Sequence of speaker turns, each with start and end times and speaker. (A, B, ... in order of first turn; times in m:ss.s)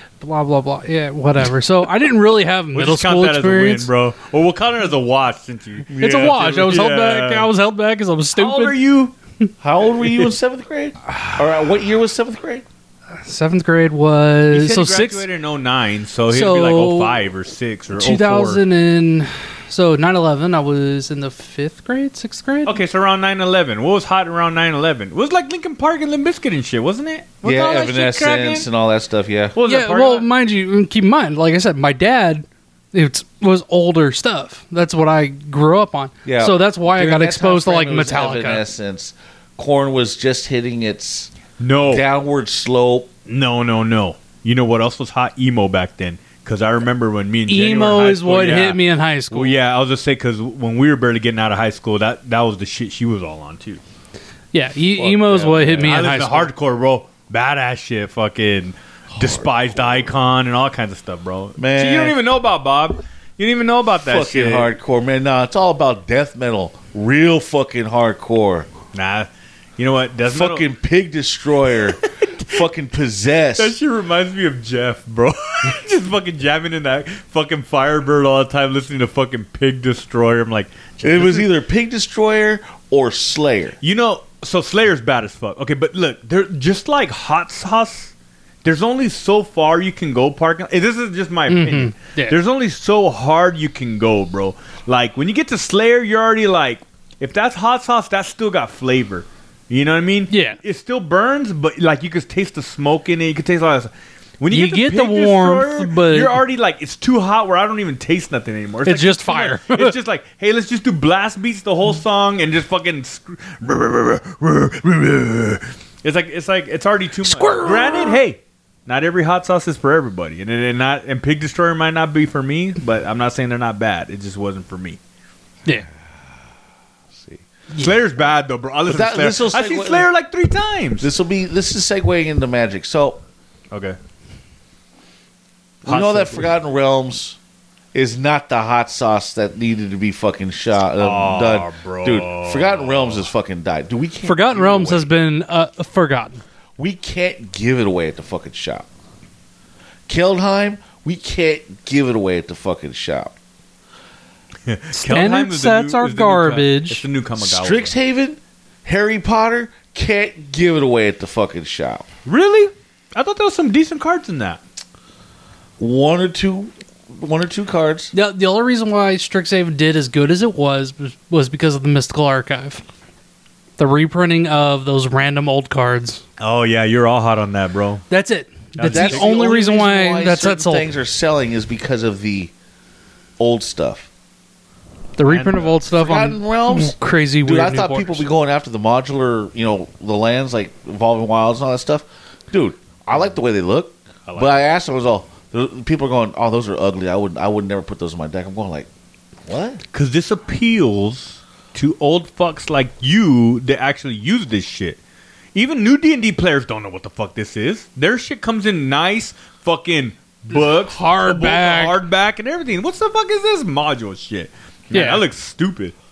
0:00.2-0:03.9 A
0:02.7-0:07.5 B
0:05.9-0:06.6 C
0:06.0-0:08.8 A
0:08.3-0:09.1 B
0:09.6-0:12.6 C
0:10.0-0:10.3 B
0:13.1-0:15.2 A
0:14.5-0:18.6 B
0:16.3-0:17.2 A
0:17.9-0:22.8 A
0:22.6-0:28.7 B
0:27.4-0:29.6 C
0:29.5-0:30.3 B
0:29.6-0:38.6 A
0:36.2-0:41.3 C
0:41.6-0:42.0 B
0:41.9-0:43.1 C
0:43.3-0:53.8 B
0:47.5-0:49.5 A
0:54.5-0:56.5 A
0:54.9-0:56.0 C
0:55.8-1:04.7 B
0:59.1-1:00.1 C
1:01.6-1:02.2 C
1:04.0-1:08.7 C
1:08.9-1:10.6 B
1:10.2-1:13.8 C
1:12.0-1:12.6 B
1:13.6-1:21.5 B
1:21.0-1:23.8 C
1:23.8-1:28.1 B
1:28.6-2:05.0 B
1:31.5-1:32.4 A
1:40.3-1:40.6 A
1:44.5-1:46.4 A
1:48.8-1:49.9 A
1:57.2-1:58.2 A
2:07.1-2:07.4 C
2:07.8-2:11.1 B
2:08.9-2:10.1 C
2:11.0-2:13.2 C
2:13.7-2:14.0 B
2:15.8-2:16.5 B
2:15.8-2:17.4 C
2:17.9-2:25.1 C
2:21.0-2:23.2 B
2:24.2-2:26.4 A
2:26.8-2:28.9 C
2:30.1-2:33.3 C
2:34.7-2:37.9 B
2:34.9-2:37.0 A
2:37.4-2:42.1 C
2:42.2-2:44.6 B
2:45.8-2:48.1 C
2:48.1-2:52.8 A
2:53.8-2:56.2 A
2:56.4-2:58.0 B
2:58.1-3:00.9 A
2:58.8-2:59.4 B
2:58.8-3:02.5 C
3:03.4-3:04.1 C
3:05.2-3:08.2 A
3:05.3-3:05.7 B
3:05.9-3:18.9 C
3:14.3-3:14.6 B
3:19.4-3:19.8 C
3:19.9-3:25.0 B
3:25.5-3:35.9 B
3:30.5-3:32.0 A
3:34.9-3:35.2 A